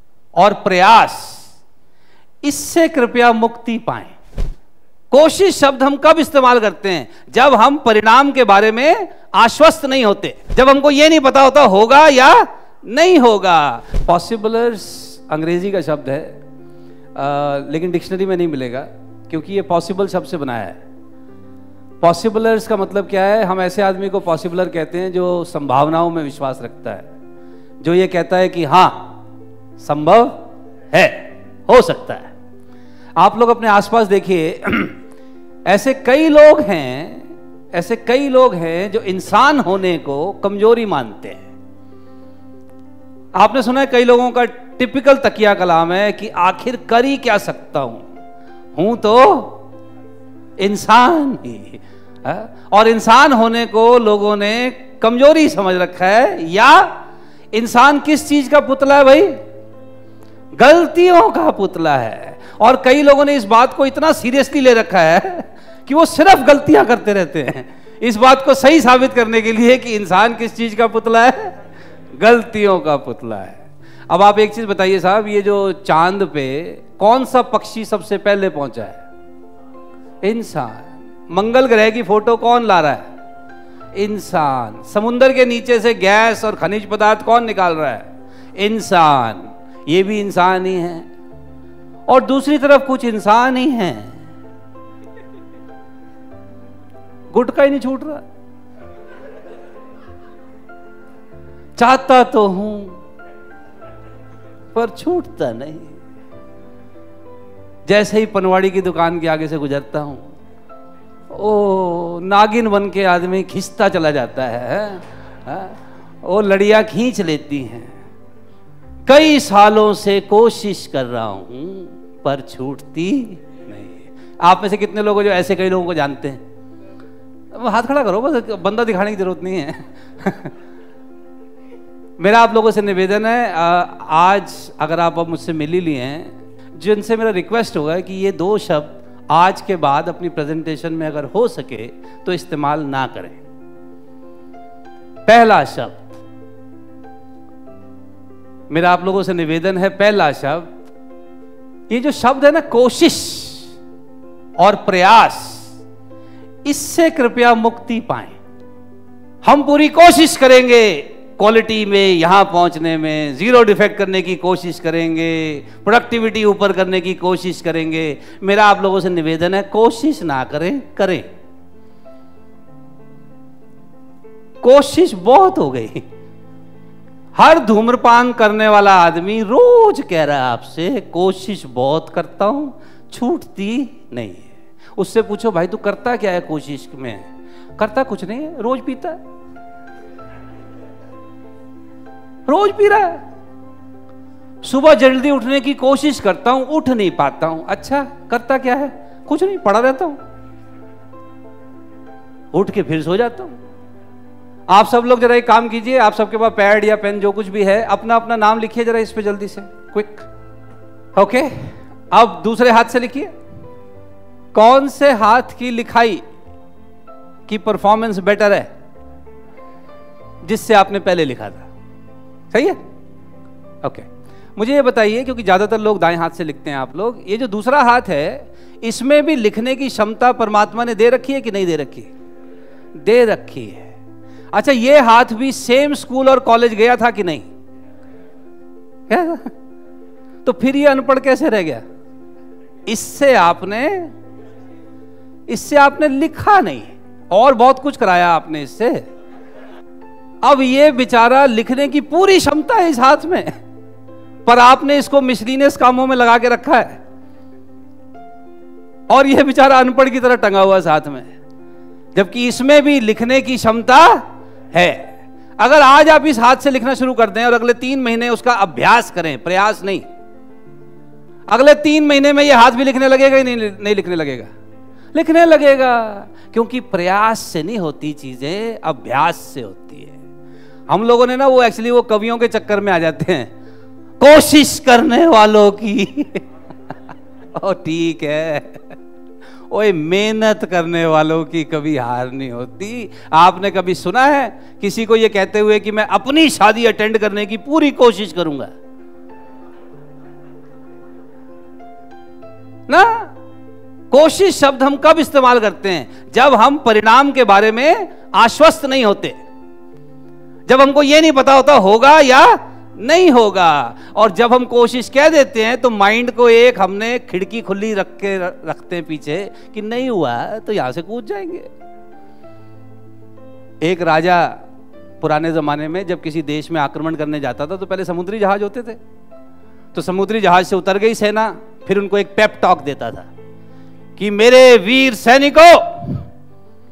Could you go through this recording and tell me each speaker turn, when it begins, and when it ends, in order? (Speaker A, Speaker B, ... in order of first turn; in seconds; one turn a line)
Speaker A: 0.4-1.4
Speaker A: 2.4-4.2
Speaker A: 5.1-16.4
Speaker A: 17.1-20.8
Speaker A: 22.0-27.1
Speaker A: 27.8-29.1
Speaker A: 29.8-32.3
Speaker A: 33.2-35.0
Speaker A: 35.6-41.4
Speaker A: 43.4-48.1
Speaker A: 48.7-49.6
Speaker A: 50.6-56.9
Speaker A: 57.5-59.4
Speaker A: 60.6-71.5
Speaker A: 72.2-79.0
Speaker A: 80.2-83.1
Speaker A: 83.9-91.1
Speaker A: 92.1-94.2
Speaker A: 97.3-98.2
Speaker A: 101.8-103.0
Speaker A: 104.7-105.9
Speaker A: 107.9-110.3
Speaker A: 111.3-117.9
Speaker A: 119.0-126.4
Speaker A: 127.5-130.5
Speaker A: 132.2-143.4
Speaker A: 145.2-146.1
Speaker A: 148.7-150.7
Speaker A: 151.9-153.7
Speaker A: 154.6-155.7
Speaker A: 156.6-158.4
Speaker A: 159.4-171.2
Speaker A: 174.6-176.0
Speaker A: 177.3-189.2
Speaker A: 192.5-193.2
Speaker A: 194.6-200.2
Speaker A: 202.5-203.5
Speaker A: 204.7-210.2
Speaker A: 211.2-213.3
Speaker A: 214.5-216.2
Speaker A: 217.5-218.7
Speaker A: 220.4-221.7
Speaker A: 222.5-222.8
Speaker A: 223.8-232.1
Speaker A: 233.0-233.9
Speaker A: 234.5-237.5
Speaker A: 239.1-239.5
Speaker A: 240.4-241.8
Speaker A: 242.8-244.1
Speaker A: 245.5-249.1
Speaker A: 250.4-253.6
Speaker A: 254.4-257.0
Speaker A: 259.1-261.3
Speaker A: 262.1-270.1
Speaker A: 271.5-274.5
Speaker A: 275.1-280.2
Speaker A: 280.9-283.5
Speaker A: 284.2-286.4
Speaker A: 287.6-288.8
Speaker A: 289.7-298.7
Speaker A: 302.9-303.3
Speaker A: 304.1-309.4
Speaker A: 310.7-321.7
Speaker A: 323.8-324.6
Speaker A: 325.2-329.0
Speaker A: 329.9-333.3
Speaker A: 334.2-336.2